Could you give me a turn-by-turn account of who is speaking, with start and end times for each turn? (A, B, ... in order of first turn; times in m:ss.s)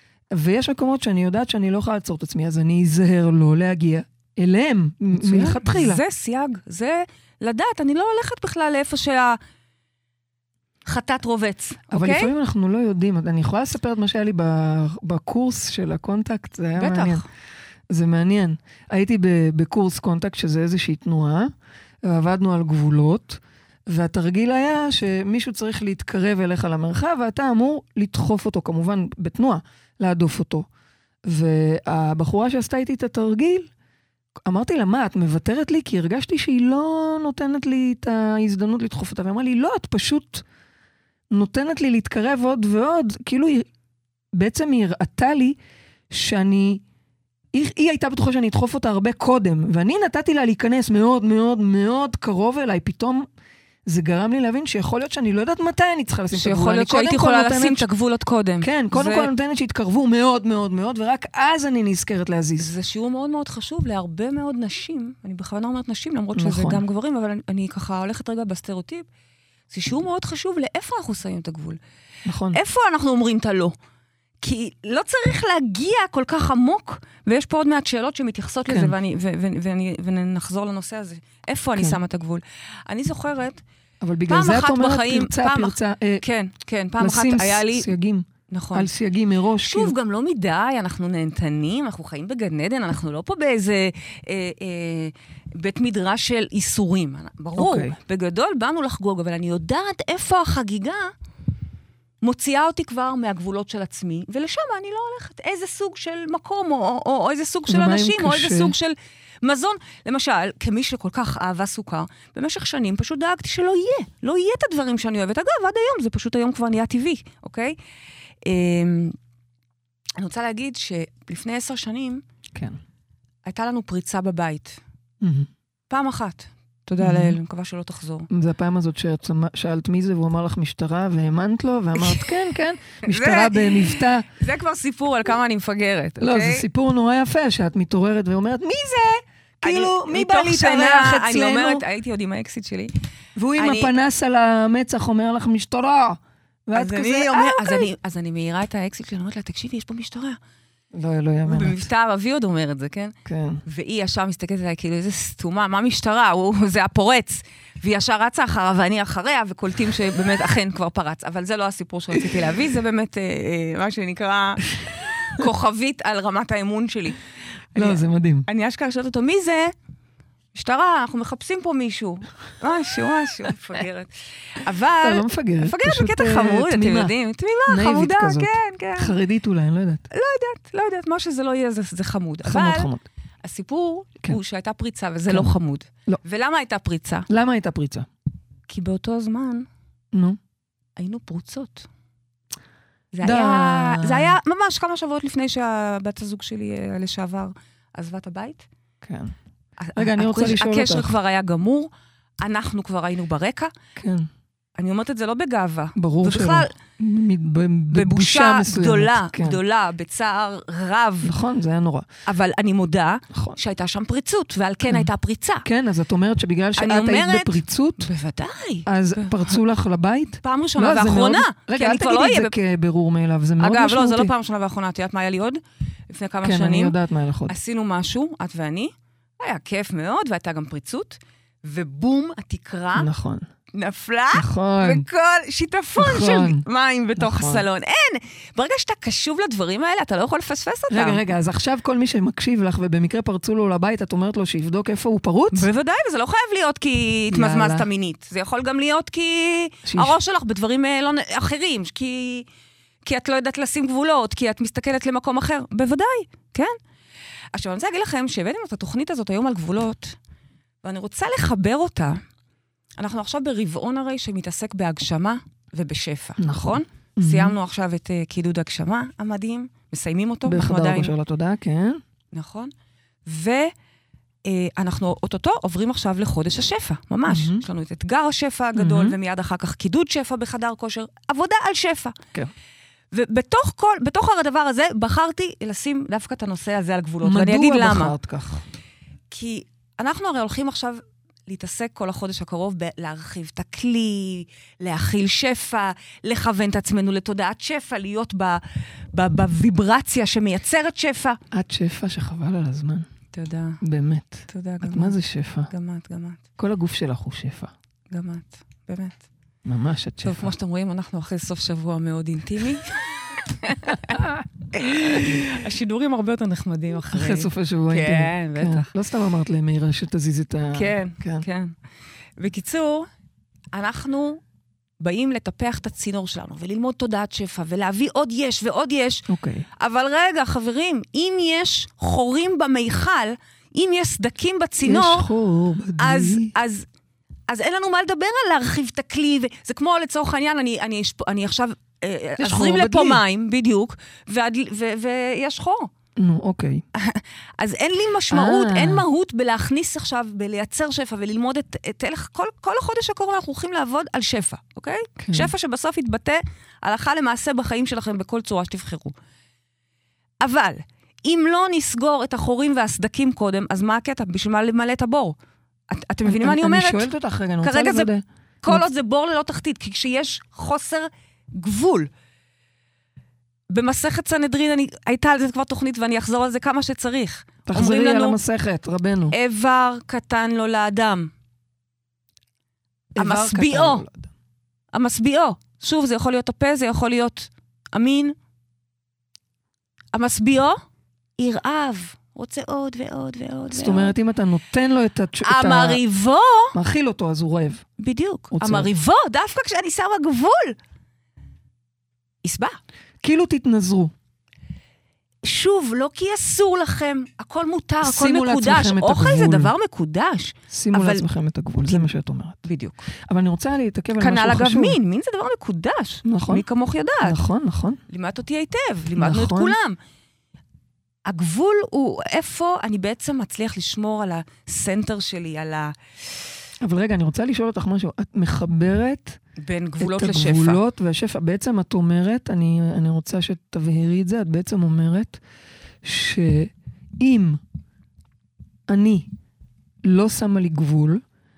0:00.3-0:06.0 A
0:05.1-0:09.4 B
0:10.9-0:12.3 B
0:11.9-0:17.2 A
0:16.8-0:17.2 B
0:17.9-0:21.5 A
0:22.0-0:30.7 A
0:31.2-0:33.7 A
0:34.4-0:40.4 A
0:41.3-0:43.7 A
0:44.3-0:45.6 A
0:46.1-0:46.8 A
0:47.5-0:53.2 A
0:53.9-0:57.9 A
0:56.3-0:59.3 B
0:58.6-1:02.7 A
1:02.6-1:09.1 B
1:06.4-1:06.8 A
1:09.7-1:11.8 B
1:12.2-1:12.6 A
1:12.5-1:13.8 B
1:14.4-1:23.6 B
1:18.7-1:18.9 A
1:24.0-1:26.2 A
1:24.3-1:27.9 B
1:27.0-1:29.9 A
1:28.5-1:28.9 B
1:29.6-1:41.1 B
1:37.6-1:38.0 A
1:42.2-1:57.8 B
1:47.7-1:48.7 A
1:58.4-1:59.2 B
2:00.2-2:02.2 B
2:03.4-2:04.8 B
2:05.2-2:05.5 A
2:05.9-2:08.3 B
2:07.0-2:07.4 A
2:08.3-2:14.2 A
2:12.0-2:12.2 B
2:13.0-2:16.6 B
2:16.2-2:21.8 A
2:19.6-2:22.9 B
2:23.4-2:27.9 A
2:23.6-2:23.9 B
2:26.7-2:30.4 B
2:30.9-2:31.8 A
2:31.4-2:47.2 B
2:33.2-2:33.6 A
2:47.7-2:49.7 B
2:47.7-2:48.5 A
2:50.5-2:59.1 B
2:55.0-2:57.1 A
2:57.7-3:00.1 A
3:00.1-3:02.9 B
3:02.4-3:03.0 A
3:03.4-3:07.3 B
3:07.3-3:08.1 A
3:08.7-3:09.7 B
3:10.1-3:10.4 A
3:11.0-3:11.9 B
3:13.1-3:18.6 B
3:13.2-3:14.4 A
3:19.0-3:19.3 A
3:19.8-3:21.9 B
3:20.0-3:21.2 A
3:22.4-3:23.7 B
3:24.0-3:24.3 A
3:24.8-3:26.7 B
3:26.0-3:29.6 A
3:27.9-3:31.3 B
3:31.2-3:32.1 A
3:32.2-3:35.6 B
3:35.6-3:38.1 A
3:36.8-3:39.6 B
3:38.9-3:44.3 A
3:40.4-3:42.6 B
3:43.6-3:46.9 B
3:46.4-3:47.5 A
3:47.5-3:53.1 B
3:52.9-3:53.4 A
3:53.7-4:01.2 B
3:54.3-3:55.0 A
3:56.0-3:56.6 A
3:57.2-3:57.6 A
4:00.9-4:05.7 A
4:05.5-4:12.4 B
4:07.3-4:07.9 A
4:09.8-4:10.1 A
4:13.0-4:16.8 B
4:17.5-4:20.2 B
4:20.8-4:22.2 B
4:23.0-4:31.1 B
4:26.4-4:27.6 A
4:30.4-4:32.0 A
4:32.3-4:32.7 B
4:33.2-4:33.7 B
4:34.4-4:42.2 B
4:37.3-4:37.6 A
4:38.8-4:39.2 A
4:43.1-4:48.1 B
4:47.2-4:48.6 A
4:49.3-5:01.4 B
5:01.5-5:03.1 A
5:03.3-5:03.8 B
5:03.8-5:05.7 A
5:04.5-5:06.4 B
5:06.6-5:07.7 A
5:08.1-5:09.2 B
5:09.6-5:10.5 A
5:10.2-5:14.2 B
5:14.1-5:14.4 A
5:14.7-5:18.9 B
5:17.1-5:21.4 A
5:20.7-5:21.7 B
5:22.4-5:23.1 B
5:23.7-5:24.4 B
5:25.0-5:29.3 B
5:29.3-5:29.6 A
5:29.8-5:35.3 B
5:34.8-5:36.5 A
5:36.0-5:36.8 B
5:37.5-5:45.9 B
5:42.4-5:43.2 A
5:46.2-5:46.8 A
5:46.9-5:59.1 B
5:48.3-5:49.0 A
5:55.2-5:55.5 A
6:00.4-6:05.4 B
6:05.9-6:07.1 B
6:06.2-6:08.8 A
6:07.6-6:08.1 B
6:08.6-6:12.1 B
6:13.7-6:18.4 B
6:17.7-6:19.4 A
6:19.3-6:21.3 B
6:23.1-6:24.3 A
6:23.2-6:24.0 B
6:24.9-6:28.4 B
6:30.1-6:30.8 B
6:31.4-6:34.1 B
6:33.7-6:36.0 A
6:35.4-6:36.7 B
6:36.7-6:37.8 A
6:38.0-6:40.8 B
6:38.5-6:38.9 A
6:42.4-6:42.8 B
6:43.2-6:44.1 A
6:45.4-6:51.2 B
6:48.0-6:49.7 A
6:50.7-6:52.6 A
6:52.6-6:53.0 B
6:53.3-6:55.0 A
6:54.2-6:57.4 B
6:56.2-6:56.6 A
6:57.2-6:58.0 A
6:58.1-7:00.0 B
6:59.2-6:59.8 A
7:01.2-7:05.9 B
7:06.8-7:09.4 A
7:09.6-7:10.8 B
7:10.0-7:15.4 A
7:16.0-7:17.6 A
7:18.9-7:19.3 A
7:20.0-7:21.2 A